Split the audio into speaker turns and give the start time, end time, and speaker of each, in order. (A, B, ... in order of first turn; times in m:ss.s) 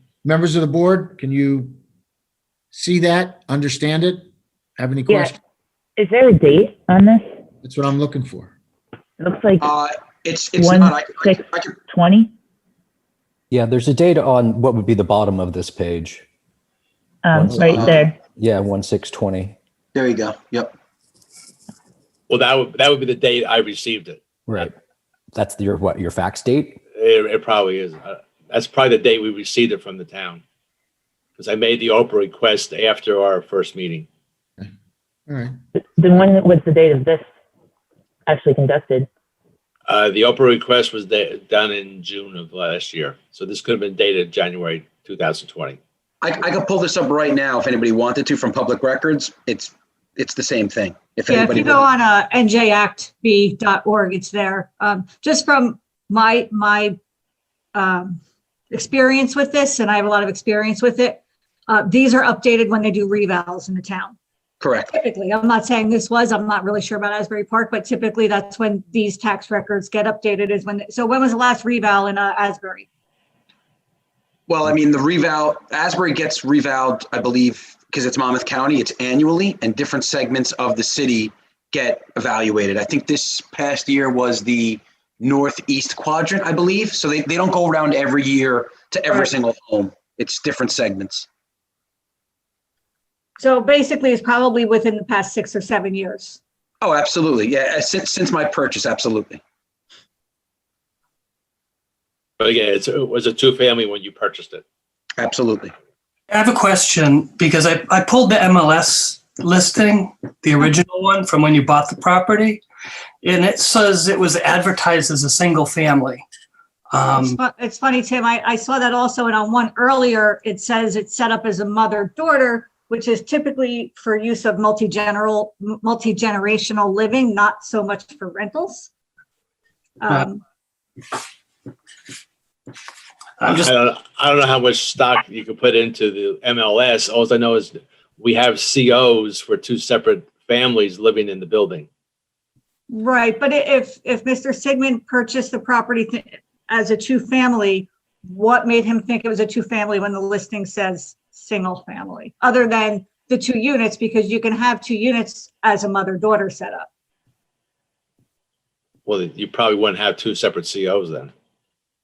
0:00.2-0:01.7 A
0:02.7-0:05.4 A
0:05.1-0:05.3 B
0:06.0-0:07.3 B
0:07.6-0:08.5 A
0:09.2-0:09.7 B
0:09.6-0:11.8 C
0:10.6-0:12.3 B
0:13.5-0:16.2 D
0:17.2-0:18.2 B
0:17.3-0:19.6 D
0:17.7-0:18.0 C
0:19.9-0:20.7 C
0:22.3-0:24.2 E
0:24.4-0:24.7 D
0:25.3-0:26.8 D
0:26.9-0:30.4 E
0:31.4-0:34.0 E
0:35.3-0:35.6 A
0:36.0-0:37.2 B
0:38.3-0:39.1 B
0:39.9-0:45.8 E
0:46.2-0:51.8 C
0:51.3-0:57.0 F
0:57.7-0:58.2 F
0:58.7-1:04.1 F
1:04.6-1:04.9 C
1:04.9-1:12.9 F
1:14.5-1:31.2 C
1:33.4-1:36.4 F
1:36.8-1:39.4 C
1:42.4-1:44.6 E
1:45.2-1:45.7 C
1:46.3-1:52.6 G
1:53.2-1:56.2 G
1:56.9-1:57.4 G
1:57.1-2:08.9 F
2:10.0-2:10.4 F
2:13.4-2:13.7 G
2:13.4-2:21.9 E
2:22.9-2:36.9 F
2:39.0-2:41.3 E